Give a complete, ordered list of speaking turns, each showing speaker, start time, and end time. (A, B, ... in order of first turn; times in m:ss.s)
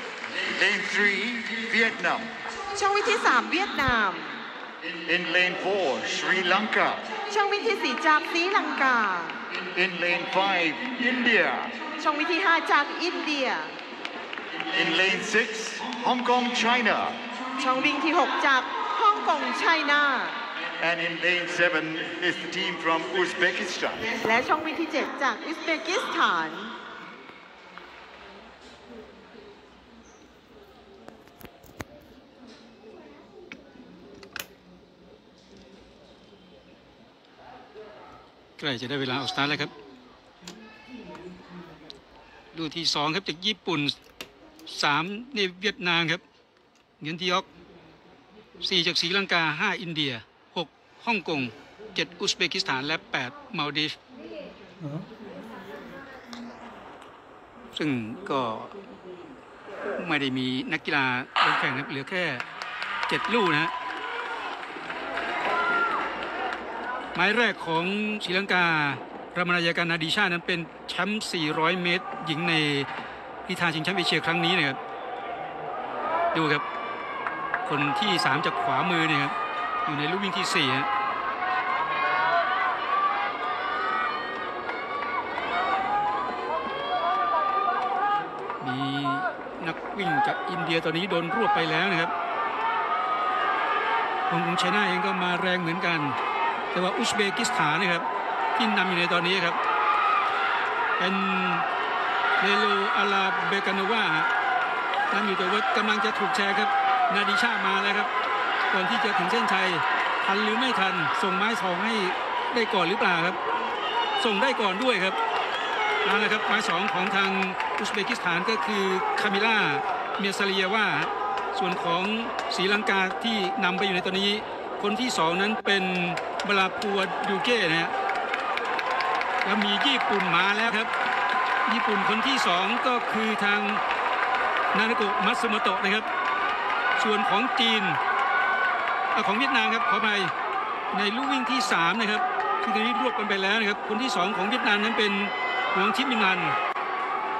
0:00.4-0:02.3 A
0:02.7-0:04.4 B
0:05.0-0:07.1 A
0:07.3-0:09.4 B
0:09.6-0:11.7 A
0:12.0-0:13.7 B
0:14.7-0:17.2 A
0:17.6-0:20.4 B
0:20.8-0:24.0 A
0:24.1-0:26.8 B
0:38.6-0:39.7 C
0:42.5-0:44.0 C
0:44.7-0:46.2 C
0:47.0-0:47.5 C
0:48.6-0:54.0 C
0:57.7-0:58.7 C
1:00.0-1:02.4 C
1:03.1-1:03.7 C
1:07.2-1:12.9 C
1:13.5-1:14.8 C
1:16.3-1:16.6 C
1:17.6-1:19.4 C
1:19.9-1:20.9 C
1:28.6-1:32.1 C
1:34.3-1:36.2 C
1:36.7-1:39.6 C
1:41.0-1:41.6 C
1:42.4-1:44.3 C
1:45.1-1:48.1 C
1:48.7-1:53.4 C
1:54.2-1:55.2 C
1:56.0-2:07.9 C
2:09.4-2:10.9 C
2:11.7-2:13.8 C
2:14.7-2:16.1 C
2:17.0-2:18.0 C
2:19.1-2:20.3 C
2:20.9-2:26.6 C